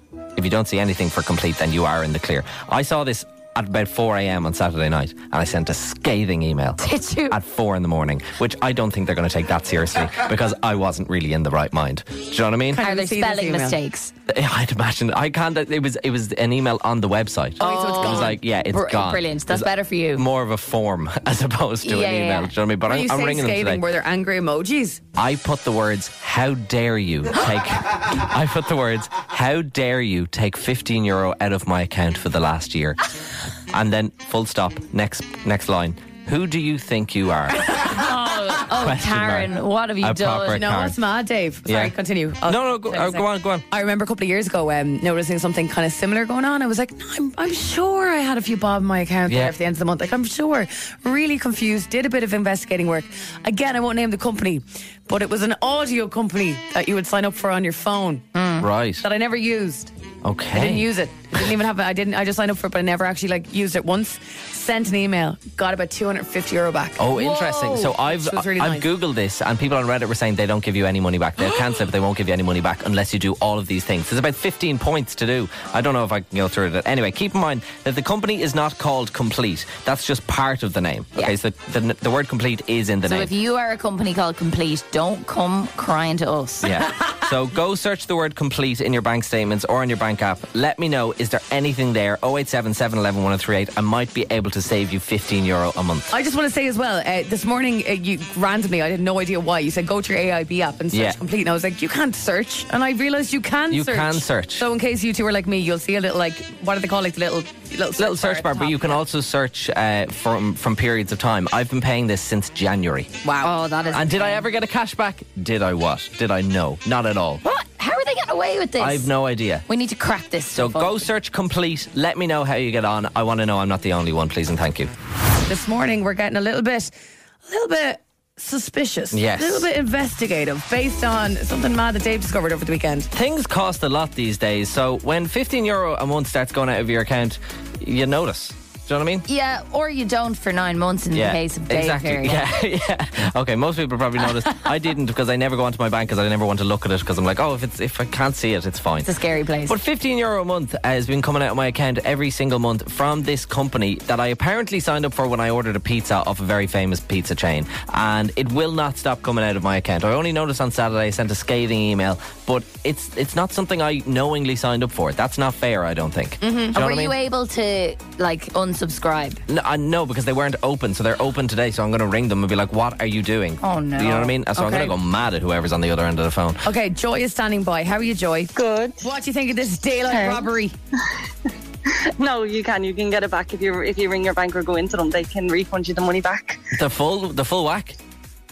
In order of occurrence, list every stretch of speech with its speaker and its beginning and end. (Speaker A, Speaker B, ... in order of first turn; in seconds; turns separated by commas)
Speaker A: 0.4-12.8, Speaker B: 6.8-7.4, Speaker C: 12.7-13.8, Speaker B: 12.8-14.1, Speaker A: 14.3-23.8, Speaker C: 17.6-18.4, Speaker B: 17.6-20.2, Speaker B: 21.8-22.5, Speaker C: 22.9-25.0, Speaker A: 25.2-33.0, Speaker A: 33.7-38.0, Speaker B: 37.8-40.6, Speaker A: 38.6-41.0, Speaker C: 40.5-58.3, Speaker A: 41.7-41.9, Speaker A: 42.5-43.6, Speaker A: 49.3-49.5, Speaker B: 58.3-58.7, Speaker A: 58.6-59.0, Speaker C: 59.0-59.9, Speaker A: 60.2-60.9, Speaker C: 60.5-68.9, Speaker A: 67.0-83.3, Speaker B: 83.1-86.8, Speaker A: 86.6-96.1, Speaker C: 96.1-109.0, Speaker A: 100.9-101.2, Speaker A: 103.7-104.7, Speaker A: 108.0-113.1, Speaker C: 113.2-113.5, Speaker B: 113.4-114.4, Speaker A: 113.9-117.4, Speaker B: 117.4-119.1, Speaker A: 118.8-119.7, Speaker B: 119.7-121.0, Speaker A: 120.5-124.9, Speaker C: 125.5-126.9, Speaker C: 127.5-133.1, Speaker A: 129.1-129.7, Speaker A: 133.1-139.3, Speaker B: 139.3-142.4, Speaker A: 141.1-149.1, Speaker B: 149.1-149.8, Speaker A: 149.7-167.2, Speaker C: 166.4-166.8, Speaker B: 166.7-169.4, Speaker A: 169.5-176.7, Speaker B: 173.6-174.3, Speaker C: 174.6-174.9, Speaker C: 176.6-180.8, Speaker D: 182.2-186.6, Speaker A: 186.7-188.0